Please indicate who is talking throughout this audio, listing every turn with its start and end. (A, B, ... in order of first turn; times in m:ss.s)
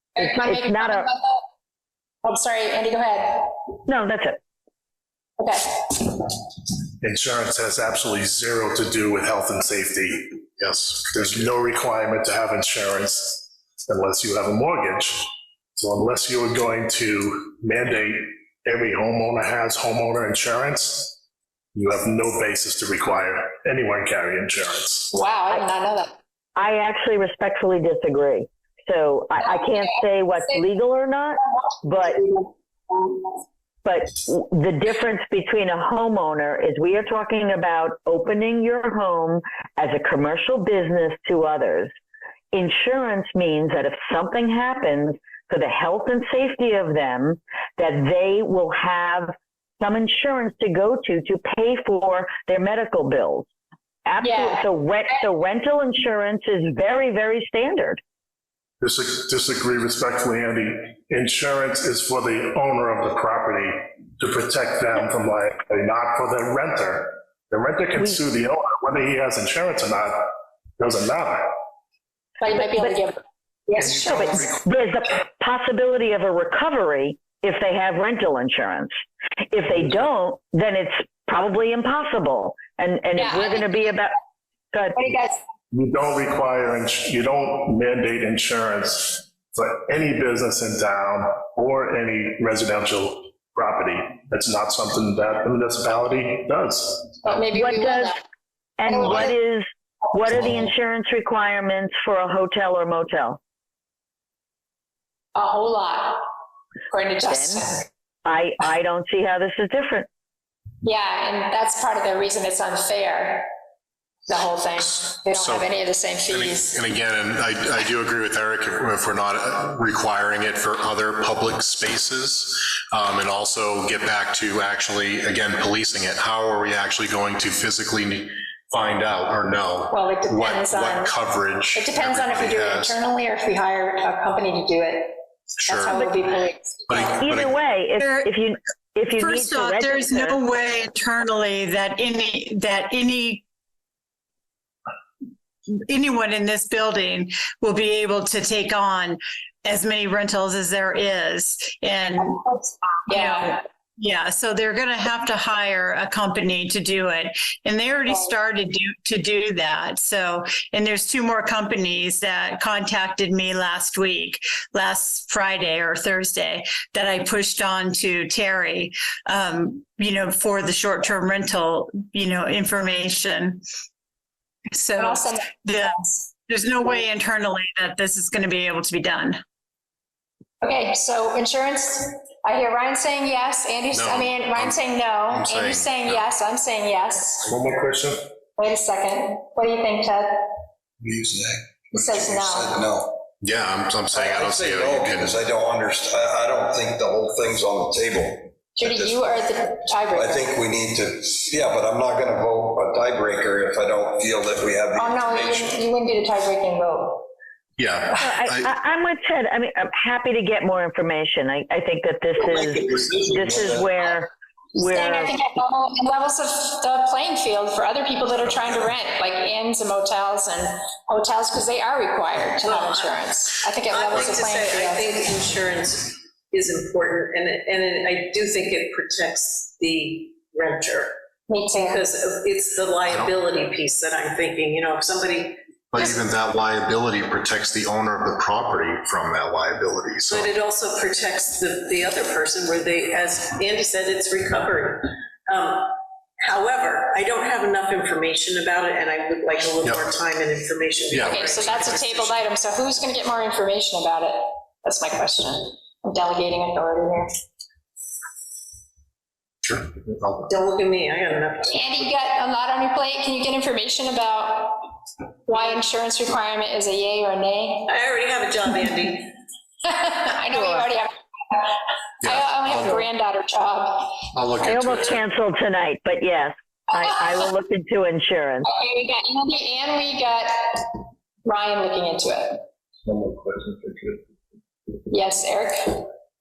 0:00.2-0:01.4 A
0:00.2-0:01.1 B
0:02.2-0:03.6 A
0:03.9-0:04.4 B
0:05.4-0:06.4 A
0:07.0-0:10.4 C
0:10.6-0:11.4 D
0:11.1-0:21.2 C
0:21.8-0:25.1 C
0:25.1-0:26.2 A
0:26.6-0:32.2 B
0:33.8-0:41.9 B
0:42.5-0:53.5 B
0:54.0-0:58.0 B
0:54.2-0:54.7 A
0:58.8-1:11.5 C
1:12.4-1:14.5 A
1:13.8-1:14.6 C
1:14.0-1:18.9 B
1:19.5-1:24.1 B
1:23.2-1:23.7 A
1:24.7-1:25.0 B
1:25.0-1:25.4 A
1:25.7-1:37.3 C
1:37.2-1:38.2 A
1:37.5-1:38.1 B
1:38.8-1:43.4 B
1:38.9-1:39.4 A
1:45.4-1:46.2 A
1:46.9-1:47.9 A
1:47.2-1:47.6 B
1:48.2-1:50.1 B
1:50.8-1:53.5 A
1:54.3-1:56.8 A
1:55.3-1:55.7 D
1:56.3-2:13.0 D
2:09.9-2:11.2 A
2:11.7-2:17.1 A
2:15.6-2:16.0 D
2:16.9-2:17.5 D
2:17.0-2:20.4 B
2:18.0-2:18.3 E
2:19.2-2:23.4 E
2:25.7-2:32.4 E
2:32.4-2:33.5 A
2:33.1-2:53.6 E
2:54.7-2:59.4 E
2:55.0-2:55.5 A
3:00.6-3:07.5 A
3:03.9-3:06.3 D
3:07.5-3:08.2 C
3:08.6-3:10.5 A
3:11.0-3:13.2 F
3:11.9-3:12.8 A
3:13.4-3:15.4 D
3:14.1-3:19.5 F
3:18.7-3:20.6 A
3:20.1-3:25.8 F
3:25.0-3:27.3 A
3:27.8-3:28.7 D
3:28.2-3:35.4 B
3:32.6-3:34.2 F
3:34.8-3:45.3 A
3:42.6-3:51.1 G
3:51.5-3:52.0 A
3:51.8-3:55.6 G
3:53.1-3:53.4 D
3:55.9-4:00.5 D
4:00.3-4:12.4 G
4:09.8-4:10.1 D
4:11.1-4:12.1 D
4:11.2-4:17.3 A
4:19.6-4:20.5 D
4:19.9-4:22.1 G
4:21.7-4:24.9 A
4:25.5-4:27.9 A
4:27.9-4:29.3 G
4:29.8-4:34.2 A
4:30.6-4:30.8 B
4:32.2-4:33.1 D
4:34.3-4:35.2 D
4:34.6-4:38.7 B
4:37.0-4:37.4 A
4:38.7-4:42.6 A
4:43.1-4:44.2 C
4:45.1-4:46.0 A